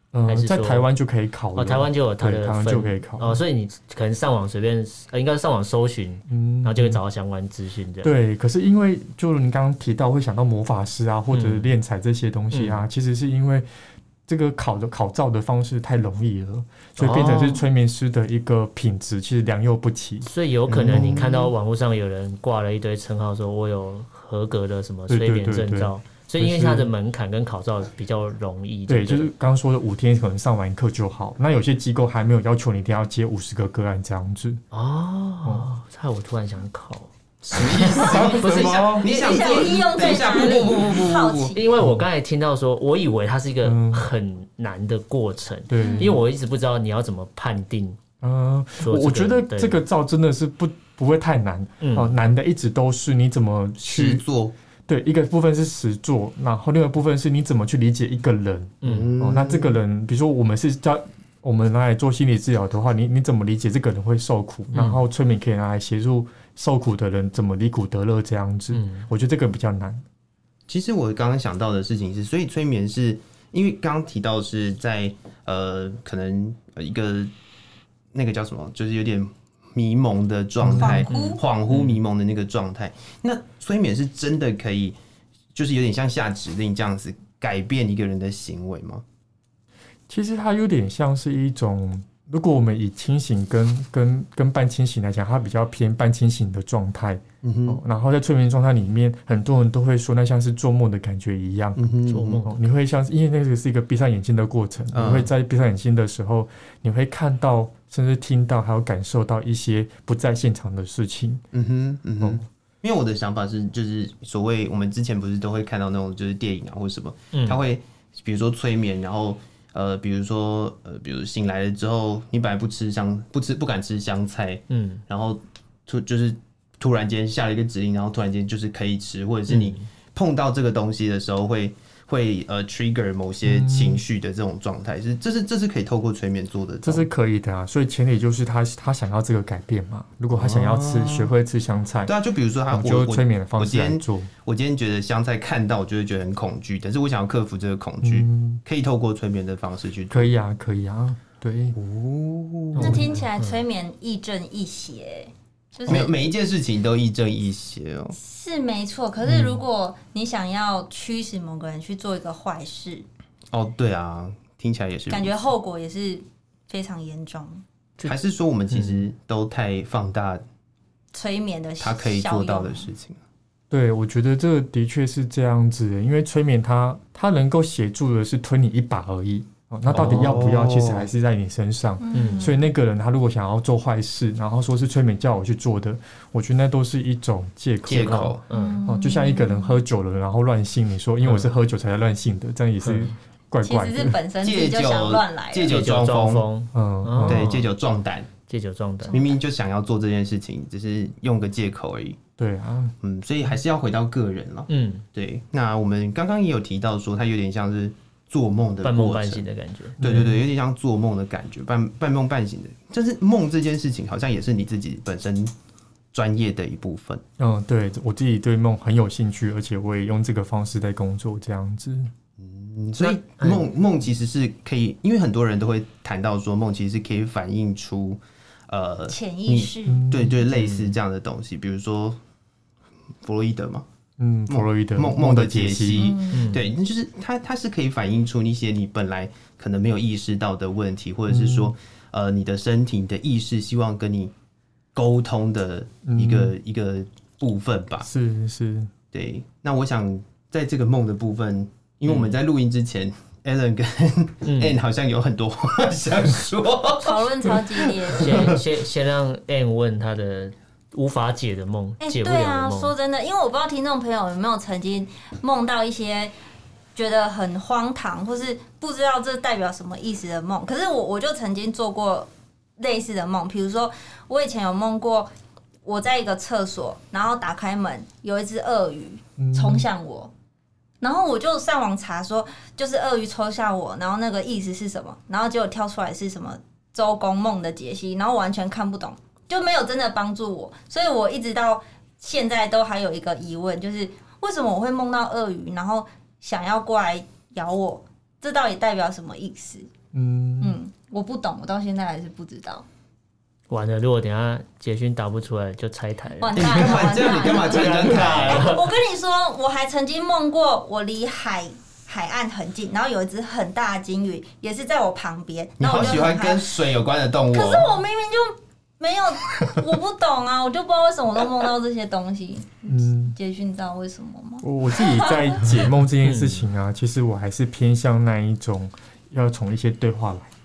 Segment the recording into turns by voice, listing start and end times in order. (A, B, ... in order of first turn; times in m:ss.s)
0:00.1-0:03.4 A
0:00.3-0:00.9 B
0:01.6-0:08.1 B
0:06.3-0:07.0 A
0:08.0-0:13.7 A
0:11.3-0:11.7 B
0:12.5-0:12.8 B
0:14.3-0:20.3 A
0:17.0-0:17.6 B
0:20.2-0:29.3 B
0:20.7-0:21.5 C
0:25.1-0:26.9 A
0:28.9-0:34.6 A
0:34.7-0:39.5 B
0:37.4-0:41.6 C
0:38.0-0:39.1 A
0:38.0-0:41.6 D
0:41.5-0:48.0 B
0:43.6-0:44.1 A
0:45.7-0:46.2 A
0:45.8-0:46.2 D
0:48.2-0:54.2 A
0:48.8-0:49.8 B
0:51.8-0:52.1 B
0:53.8-0:54.5 C
0:54.9-1:10.0 A
0:58.8-0:59.1 B
0:58.8-0:59.7 C
1:04.7-1:05.0 B
1:08.7-1:09.0 B
1:10.7-1:17.3 C
1:18.1-1:25.0 C
1:20.6-1:20.9 A
1:20.8-1:21.4 D
1:20.9-1:22.0 B
1:25.5-1:29.0 C
1:30.1-1:41.9 A
1:37.4-1:37.8 C
1:41.8-1:42.5 C
1:42.1-1:42.5 B
1:42.4-1:51.4 A
1:44.9-1:45.3 C
1:51.5-2:17.1 C
1:52.2-1:52.4 A
1:57.3-1:57.6 B
2:04.7-2:05.0 B
2:09.5-2:09.8 B
2:13.4-2:14.0 A
2:16.8-2:22.1 A
2:20.3-2:21.3 C
2:22.0-2:30.3 C
2:22.7-2:24.3 A
2:28.0-2:28.6 A
2:30.1-2:31.8 A
2:31.7-2:33.1 C
2:32.7-2:33.6 B
2:32.8-2:36.1 D
2:35.8-2:38.2 C
2:38.2-2:43.0 D
2:43.5-2:45.4 C
2:45.1-2:47.6 D
2:48.0-2:50.4 C
2:48.7-2:49.0 B
2:51.1-2:52.9 D
2:51.8-2:53.2 C
2:53.7-3:14.2 A
2:59.9-3:00.4 B
2:59.9-3:01.1 C
3:02.0-3:02.6 D
3:02.1-3:02.5 B
3:07.8-3:08.4 C
3:07.9-3:08.8 B
3:08.5-3:09.8 D
3:11.2-3:11.6 B
3:12.8-3:13.1 B
3:13.6-3:15.7 D
3:14.4-3:16.4 C
3:15.6-3:17.7 B
3:16.7-3:17.5 A
3:17.2-3:18.3 C
3:18.5-3:19.2 B
3:19.0-3:19.4 D
3:19.1-3:22.2 C
3:22.4-3:23.0 A
3:23.0-3:29.4 C
3:24.7-3:25.0 B
3:28.8-3:30.0 B
3:30.0-3:30.4 A
3:30.0-3:35.5 C
3:36.1-3:37.2 C
3:37.4-3:42.1 A
3:42.4-3:52.2 C
3:43.0-3:43.7 B
3:49.1-3:50.0 D
3:49.9-3:50.4 A
3:50.5-3:51.0 B
3:53.2-3:53.8 C
3:54.2-3:56.2 A
3:54.5-4:04.3 C
3:56.0-3:56.6 D
3:56.3-3:56.6 B
4:01.3-4:01.7 A
4:04.9-4:08.1 C
4:06.0-4:06.5 A
4:08.0-4:08.9 A
4:09.1-4:18.6 C
4:12.1-4:12.4 B
4:14.4-4:14.8 B
4:17.0-4:18.6 D
4:18.2-4:22.9 B
4:22.0-4:26.3 D
4:26.9-4:35.3 D
4:35.8-4:40.3 D
4:39.4-4:39.9 A
4:41.0-4:59.9 D
5:00.1-5:00.8 A
5:00.6-5:02.8 D
5:03.7-5:08.9 B
5:06.4-5:16.8 D
5:06.5-5:08.7 C
5:15.8-5:18.0 C
5:17.5-5:25.6 D
5:22.9-5:23.3 A
5:24.6-5:30.5 A
5:26.2-5:26.7 B